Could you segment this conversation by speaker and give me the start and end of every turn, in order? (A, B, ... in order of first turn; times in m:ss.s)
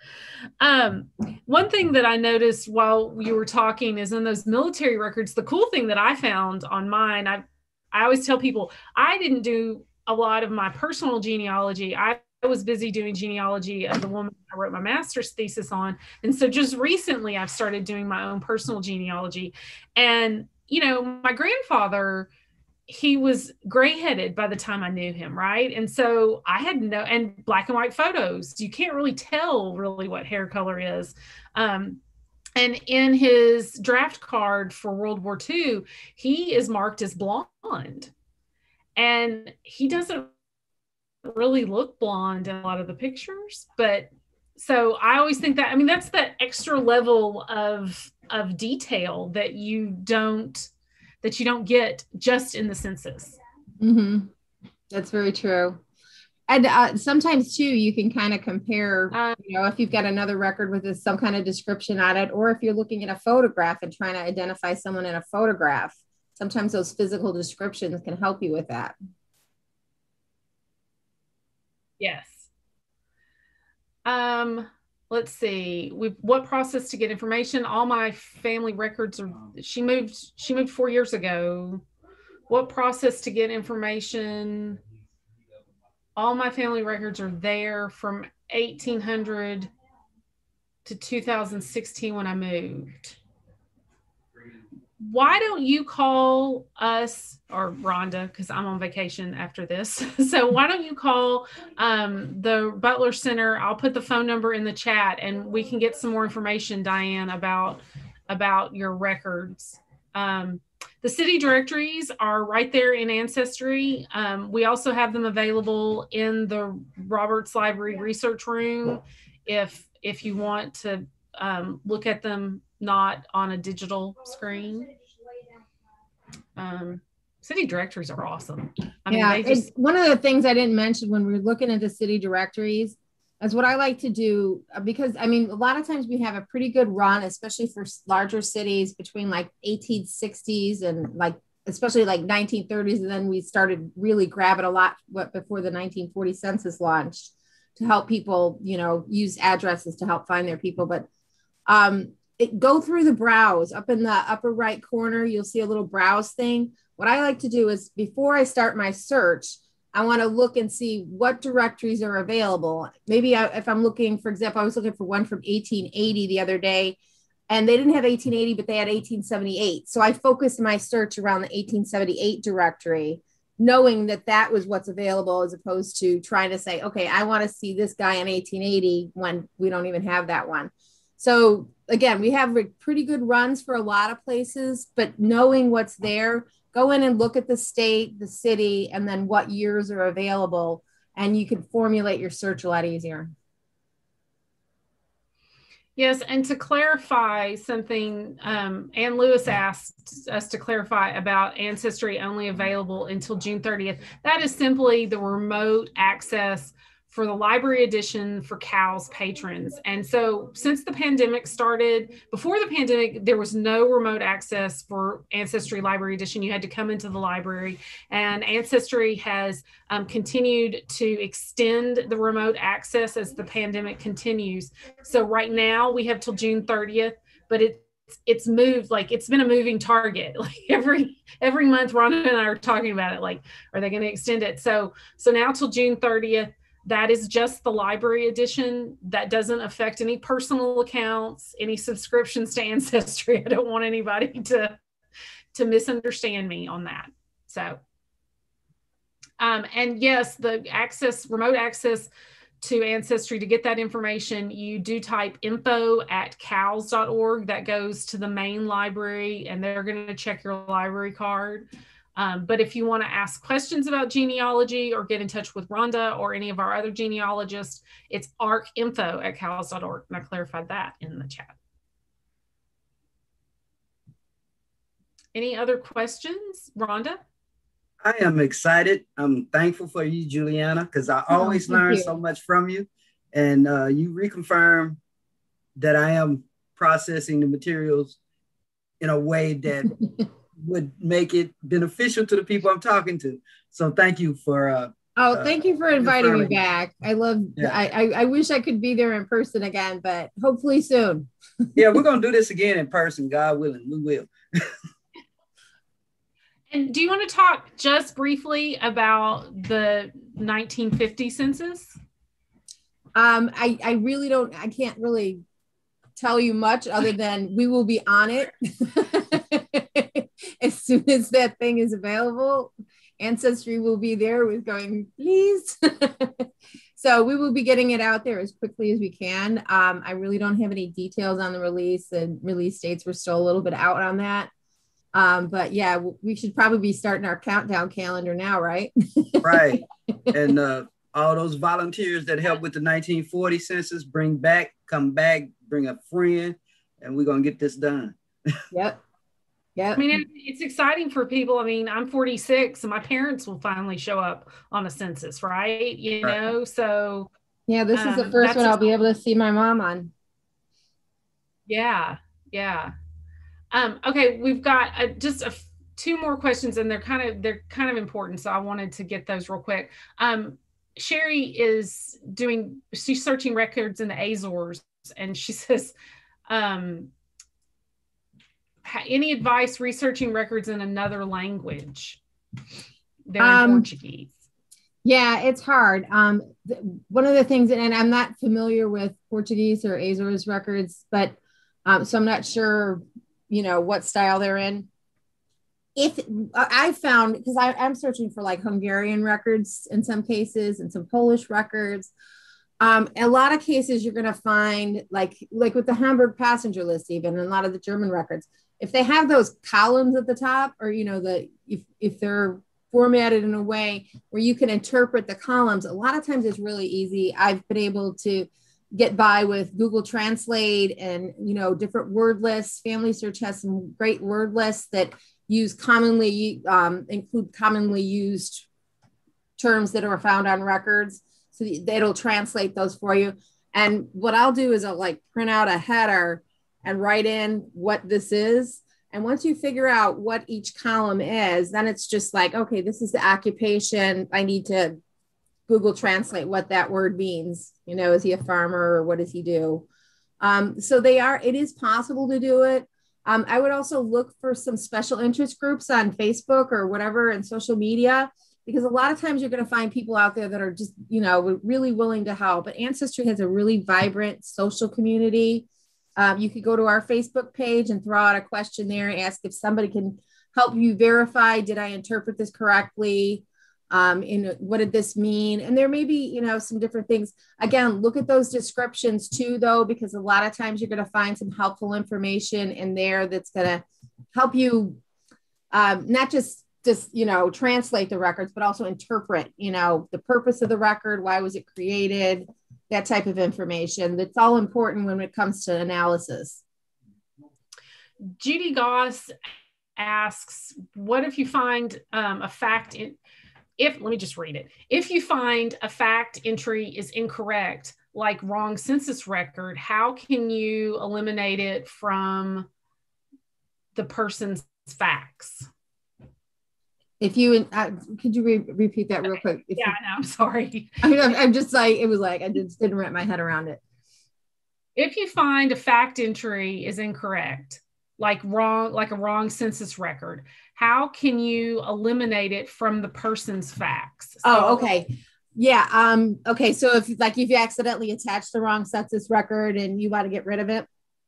0:00.6-0:22.3 A
0:22.9-0:32.0 A
0:32.6-0:38.1 A
0:39.0-0:40.3 A
0:41.2-0:50.7 A
0:51.2-0:53.4 A
0:53.8-0:54.3 B
0:54.9-0:55.8 B
0:56.5-1:09.0 B
0:59.1-0:59.4 A
1:12.0-1:12.5 A
1:14.0-1:21.8 A
1:22.5-1:24.8 A
1:26.2-1:29.7 A
1:30.8-1:33.2 A
1:35.0-2:04.9 A
2:06.6-2:09.7 A
2:09.1-2:31.1 B
2:31.7-2:47.0 B
2:47.5-3:13.3 B
3:16.0-4:04.8 A
4:05.5-4:07.8 A
4:09.4-4:31.6 A
4:35.3-4:37.2 A
4:38.0-4:45.0 C
4:41.3-4:42.1 B
4:45.8-4:48.2 C
4:49.0-4:50.0 C
4:50.6-4:56.5 C
4:55.2-5:01.3 B
5:01.8-5:04.7 C
5:06.7-5:12.0 A
5:13.2-5:15.4 B
5:16.2-5:34.5 B
5:35.1-5:40.3 B
5:39.4-5:48.2 C
5:48.7-5:49.0 B
5:49.8-5:50.1 B
5:50.0-5:57.3 A
5:57.7-6:00.1 B
5:57.9-5:58.9 A
6:01.7-6:02.9 A
6:03.7-6:15.9 A
6:16.5-6:17.1 A
6:18.8-6:22.2 A
6:23.3-6:24.4 A
6:23.4-6:23.9 B
6:25.0-6:34.9 B
6:36.0-6:42.1 B
6:42.8-7:08.7 B
7:09.6-7:25.0 B
7:25.7-7:29.8 B
7:30.4-7:45.7 B
7:46.2-8:03.8 B
8:04.3-8:05.0 B
8:05.7-8:16.6 B
8:18.4-8:19.3 A
8:20.0-8:23.2 A
8:23.8-8:32.7 A
8:34.0-8:35.7 A
8:37.2-8:40.0 B
8:39.3-8:41.0 A
8:41.0-8:43.8 B
8:45.0-8:54.9 A
8:54.4-9:00.9 B